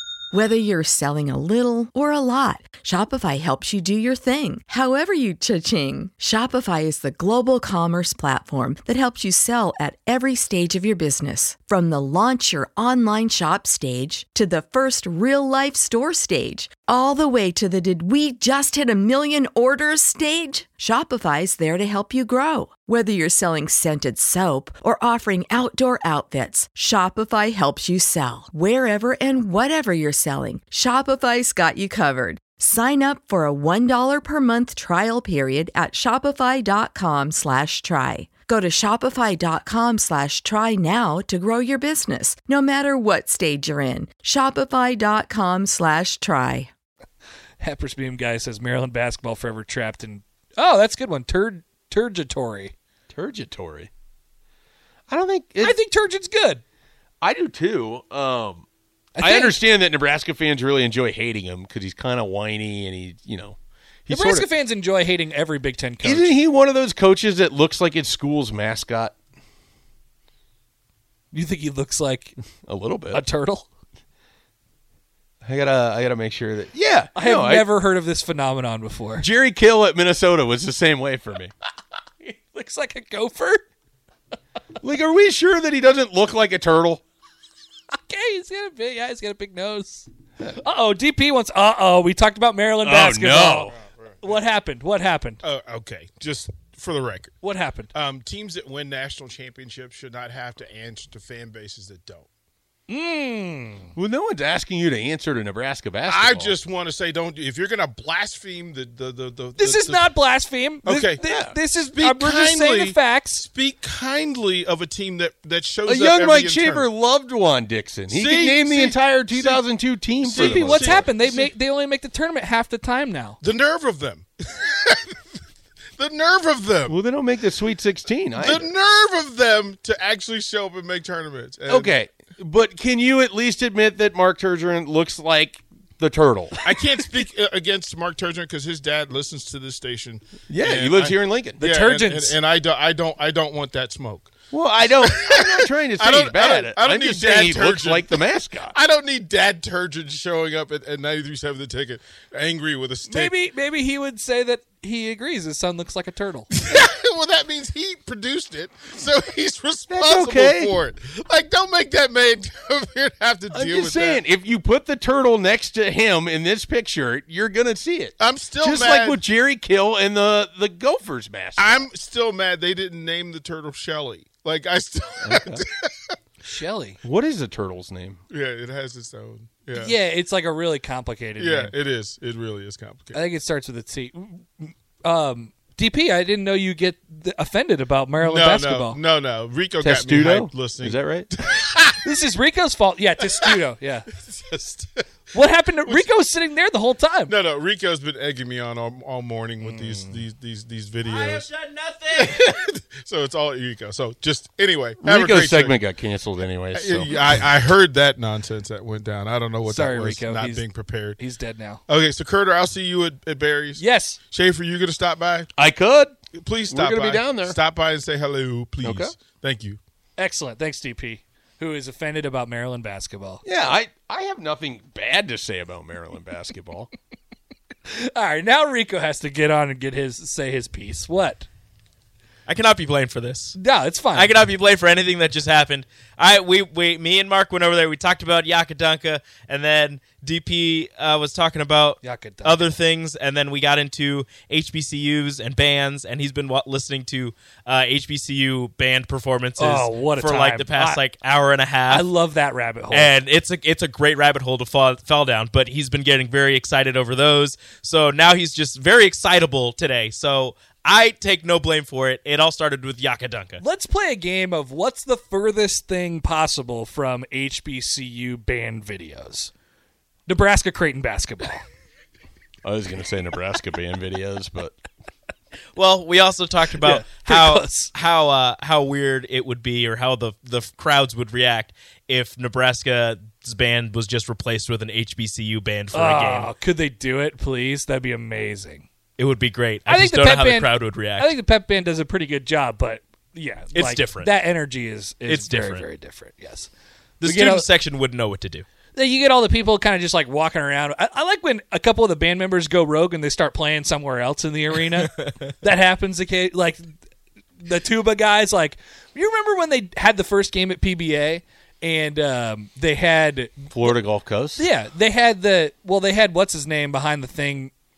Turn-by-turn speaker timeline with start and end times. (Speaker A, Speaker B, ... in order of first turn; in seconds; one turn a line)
Speaker A: 0.3-46.7
Speaker B: 47.6-52.7
Speaker C: 53.1-53.9
Speaker C: 55.1-55.8
Speaker B: 55.6-56.6
Speaker C: 57.2-58.7
Speaker B: 59.2-59.6
Speaker C: 59.2-64.5
Speaker B: 64.1-66.4
Speaker C: 66.0-69.2
Speaker B: 71.3-72.4
Speaker C: 72.7-73.2
Speaker B: 73.1-73.7
Speaker C: 75.4-77.7
Speaker B: 77.2-79.2
Speaker C: 79.2-81.5
Speaker B: 82.2-83.6
Speaker C: 84.8-87.0
Speaker B: 87.9-95.4
Speaker C: 92.8-93.8
Speaker D: 93.9-94.3
Speaker D: 95.4-97.4
Speaker B: 97.4-97.9
Speaker D: 97.9-102.3
Speaker B: 102.9-103.9
Speaker C: 104.0-106.5
Speaker D: 106.1-110.1
Speaker B: 109.6-113.5
Speaker D: 110.8-116.9
Speaker C: 111.2-111.6
Speaker C: 115.9-121.1
Speaker D: 118.1-119.6
Speaker D: 120.2-121.5
Speaker B: 120.3-123.4
Speaker D: 123.4-125.2
Speaker D: 126.0-127.0
Speaker C: 126.9-128.7
Speaker D: 128.3-131.9
Speaker C: 131.7-136.6
Speaker D: 136.6-144.3
Speaker C: 140.5-141.6
Speaker B: 141.6-142.4
Speaker C: 144.5-148.8
Speaker D: 145.0-148.2
Speaker D: 148.7-153.3
Speaker B: 153.1-156.5
Speaker D: 156.5-164.2
Speaker C: 159.9-160.8
Speaker C: 163.5-171.9
Speaker D: 168.2-169.2
Speaker D: 171.6-176.1
Speaker C: 175.2-175.6
Speaker B: 176.4-177.0
Speaker C: 177.0-178.2
Speaker D: 178.3-179.9
Speaker B: 179.7-181.7
Speaker D: 181.4-183.2
Speaker B: 183.1-189.0
Speaker D: 188.2-192.0
Speaker C: 189.8-191.3
Speaker B: 192.0-194.1
Speaker D: 193.3-193.6
Speaker D: 194.2-195.0
Speaker B: 195.3-197.3
Speaker D: 197.3-201.5
Speaker B: 199.6-200.2
Speaker D: 202.1-205.8
Speaker C: 205.0-207.4
Speaker D: 206.7-211.2
Speaker B: 209.7-211.8
Speaker D: 211.9-215.5
Speaker B: 213.8-214.2
Speaker C: 215.6-216.2
Speaker D: 216.3-219.8
Speaker C: 216.7-217.6
Speaker C: 218.8-219.1
Speaker B: 220.2-223.4
Speaker C: 223.4-226.9
Speaker B: 227.9-231.5
Speaker E: 232.5-233.6
Speaker B: 233.6-234.4
Speaker E: 234.1-252.1
Speaker B: 242.0-242.8
Speaker B: 249.6-251.0
Speaker B: 251.9-253.1
Speaker E: 252.9-263.6
Speaker B: 263.6-269.5
Speaker B: 270.3-271.6
Speaker C: 272.6-274.8
Speaker E: 275.8-286.5
Speaker B: 276.8-277.9
Speaker B: 285.9-288.9
Speaker E: 289.2-291.4
Speaker B: 289.9-296.7
Speaker E: 293.7-294.3
Speaker E: 295.3-295.9
Speaker E: 297.2-298.7
Speaker B: 297.3-297.7
Speaker B: 298.9-306.9
Speaker E: 305.1-305.5
Speaker B: 307.6-313.9
Speaker C: 313.7-314.6
Speaker B: 314.6-317.7